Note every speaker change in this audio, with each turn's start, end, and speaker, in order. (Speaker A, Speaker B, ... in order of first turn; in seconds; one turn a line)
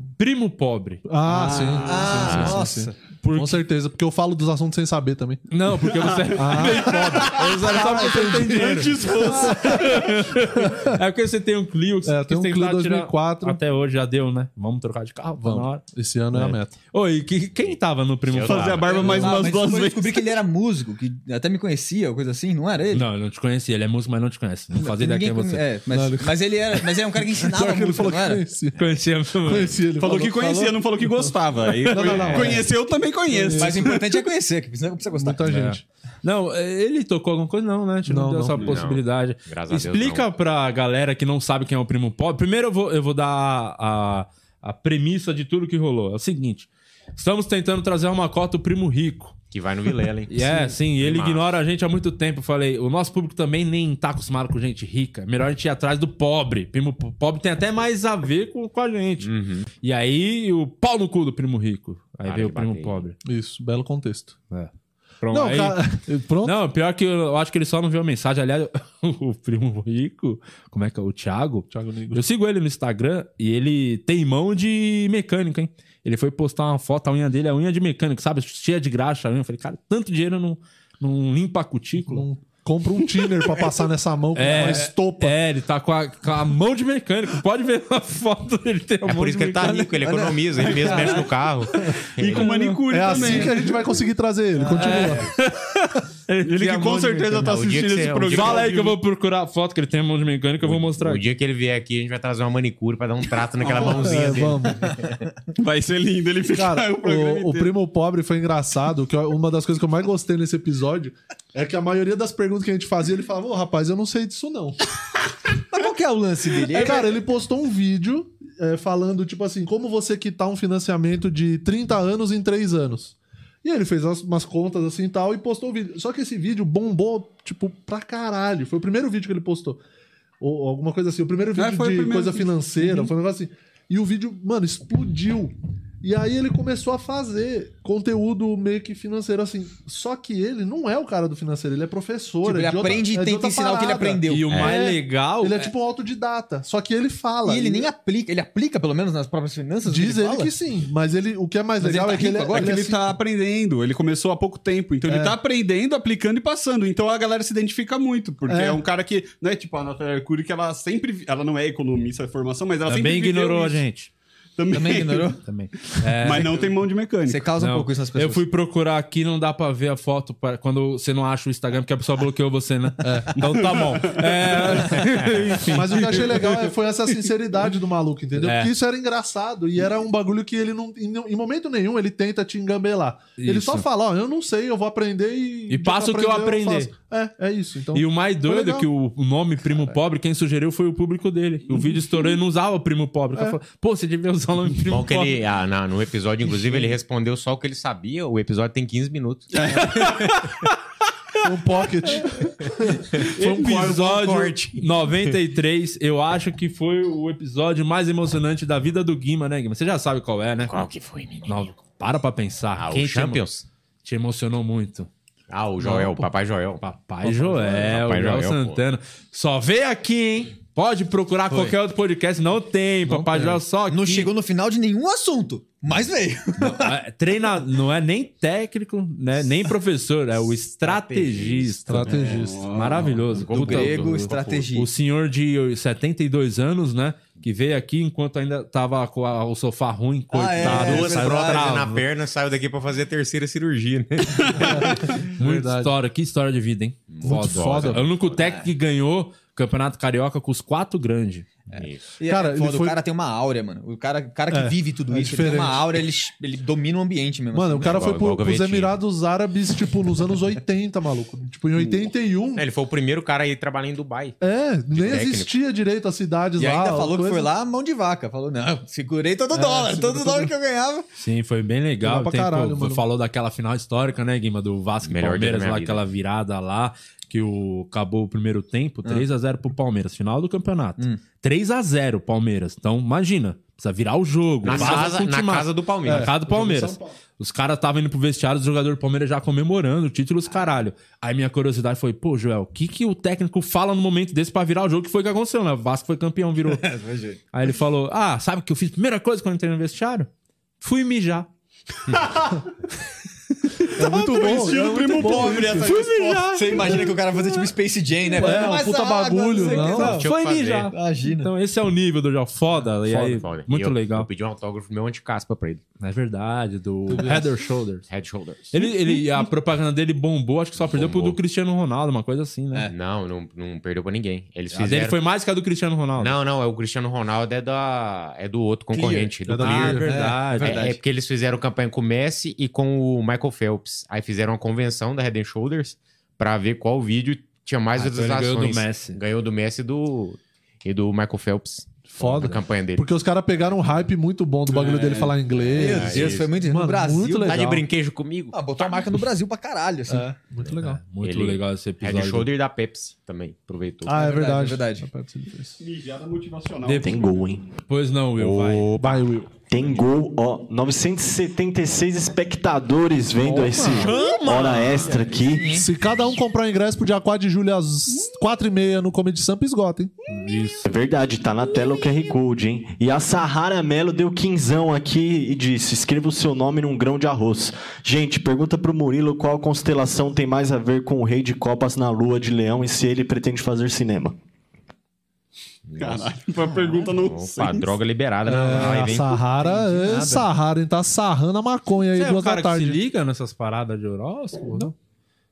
Speaker A: 0.2-1.1
Speaker B: 1.1-5.5
Speaker C: 1.3-3.0
Speaker D: 1.3-2.1
Speaker E: 2.2-2.6
Speaker A: 3.2-3.6
Speaker A: 5.5-19.3
Speaker B: 6.3-11.0
Speaker D: 7.3-10.0
Speaker B: 12.1-13.6
Speaker B: 15.4-16.8
Speaker E: 18.3-19.4
Speaker D: 18.4-20.3
Speaker C: 19.0-23.1
Speaker A: 22.9-25.6
Speaker C: 24.8-28.4
Speaker B: 25.9-26.4
Speaker B: 27.4-28.8
Speaker A: 28.8-29.7
Speaker B: 29.4-31.3
Speaker D: 30.0-34.1
Speaker B: 31.9-32.7
Speaker B: 33.3-33.9
Speaker C: 33.6-35.4
Speaker B: 35.2-35.8
Speaker A: 35.5-49.4
Speaker B: 38.1-38.6
Speaker E: 38.6-40.3
Speaker E: 49.5-51.5
Speaker A: 50.3-59.3
Speaker E: 59.2-59.7
Speaker A: 59.8-63.2
Speaker E: 62.3-63.0
Speaker B: 63.2-64.4
Speaker A: 65.2-82.3
Speaker B: 65.3-66.5
Speaker B: 71.7-72.2
Speaker B: 82.0-85.4
Speaker A: 84.3-90.0
Speaker E: 89.0-92.6
Speaker C: 90.0-91.3
Speaker A: 90.6-91.3
Speaker A: 91.8-92.7
Speaker D: 92.2-93.7
Speaker B: 92.9-95.3
Speaker C: 94.6-95.1
Speaker A: 94.8-97.6
Speaker D: 96.4-99.0
Speaker E: 97.4-98.8
Speaker A: 98.3-101.2
Speaker E: 100.6-105.1
Speaker B: 103.7-104.9
Speaker D: 105.5-107.7
Speaker B: 106.5-114.8
Speaker C: 115.7-117.1
Speaker B: 116.7-129.8
Speaker B: 130.4-147.9
Speaker D: 131.6-133.1
Speaker C: 142.4-144.5
Speaker A: 144.3-145.7
Speaker E: 144.5-144.8
Speaker C: 147.4-150.5
Speaker B: 149.9-153.0
Speaker C: 151.8-152.8
Speaker D: 152.5-163.8
Speaker B: 155.1-155.4
Speaker B: 158.5-158.8
Speaker A: 162.9-164.1
Speaker D: 164.6-165.4
Speaker C: 164.7-165.4
Speaker A: 165.4-166.7
Speaker D: 166.2-167.4
Speaker C: 167.3-168.4
Speaker A: 167.6-176.7
Speaker B: 173.0-173.6
Speaker D: 173.4-174.5
Speaker B: 175.6-188.9
Speaker A: 178.4-178.7
Speaker A: 183.4-183.8
Speaker A: 185.7-186.9
Speaker A: 187.9-195.4
Speaker E: 194.9-199.5
Speaker D: 199.5-200.2
Speaker A: 199.8-200.7
Speaker B: 201.4-203.9
Speaker E: 203.2-204.9
Speaker A: 203.4-210.8
Speaker E: 210.6-211.7
Speaker A: 211.5-213.4
Speaker E: 212.8-213.7
Speaker A: 214.0-215.1
Speaker E: 215.5-218.8
Speaker A: 215.8-216.2
Speaker A: 216.8-224.3
Speaker C: 221.5-221.8
Speaker B: 223.1-223.6
Speaker C: 223.9-226.9
Speaker A: 226.6-242.0
Speaker E: 230.8-232.3
Speaker B: 231.9-232.8
Speaker D: 232.2-233.2
Speaker E: 233.3-234.5
Speaker C: 233.5-234.9
Speaker C: 240.3-241.7
Speaker E: 240.6-245.2
Speaker B: 244.6-245.9
Speaker A: 245.3-251.5
Speaker E: 247.1-248.5
Speaker B: 247.2-248.0
Speaker C: 248.4-248.7
Speaker C: 251.7-258.0
Speaker E: 251.7-252.1
Speaker B: 252.3-253.0
Speaker B: 254.5-256.0
Speaker B: 257.5-262.7
Speaker E: 257.8-258.9
Speaker E: 262.6-264.4
Speaker B: 264.4-267.5
Speaker E: 264.9-265.5
Speaker C: 266.6-271.1
Speaker B: 269.5-270.5
Speaker A: 271.2-296.9
Speaker B: 272.0-273.0
Speaker E: 275.0-276.0
Speaker E: 284.6-286.3
Speaker B: 284.7-285.1
Speaker B: 286.1-287.1
Speaker C: 296.7-297.4
Speaker A: 297.5-300.3
Speaker A: 300.8-301.5
Speaker A: 303.8-304.7
Speaker B: 303.9-306.0
Speaker D: 304.0-306.5
Speaker A: 305.8-307.6
Speaker C: 306.5-310.3
Speaker B: 308.4-310.2
Speaker A: 309.6-314.3
Speaker E: 310.0-310.9
Speaker C: 310.9-311.5
Speaker E: 313.1-315.8
Speaker A: 316.0-318.1
Speaker B: 317.1-317.5
Speaker E: 318.1-318.8
Speaker A: 318.7-322.9
Speaker E: 320.8-321.4
Speaker E: 322.9-325.2
Speaker A: 324.7-326.4
Speaker E: 326.2-343.1
Speaker C: 328.9-329.3
Speaker B: 329.5-330.2
Speaker A: 329.6-330.9
Speaker C: 330.0-331.0
Speaker A: 337.9-339.2
Speaker B: 342.1-347.9
Speaker D: 344.7-345.4
Speaker E: 345.7-346.5
Speaker C: 345.7-347.6
Speaker E: 347.4-349.1
Speaker C: 348.5-350.3
Speaker B: 350.1-351.0
Speaker A: 350.7-352.5
Speaker E: 351.2-354.2
Speaker B: 354.1-355.8
Speaker C: 354.1-355.1
Speaker D: 355.8-357.4
Speaker A: 356.9-357.1
Speaker F: 357.0-357.7
Speaker A: 357.8-358.9
Speaker E: 358.4-359.3
Speaker B: 359.0-359.6
Speaker F: 359.7-365.8
Speaker B: 363.4-364.1
Speaker A: 363.7-365.2
Speaker C: 365.2-365.9
Speaker B: 365.7-370.1
Speaker A: 370.3-370.8
Speaker F: 370.8-384.4
Speaker E: 385.9-386.3
Speaker D: 386.0-387.9
Speaker E: 387.1-389.4
Speaker B: 388.4-393.0
Speaker A: 388.7-389.0
Speaker A: 389.6-390.4
Speaker A: 392.1-394.9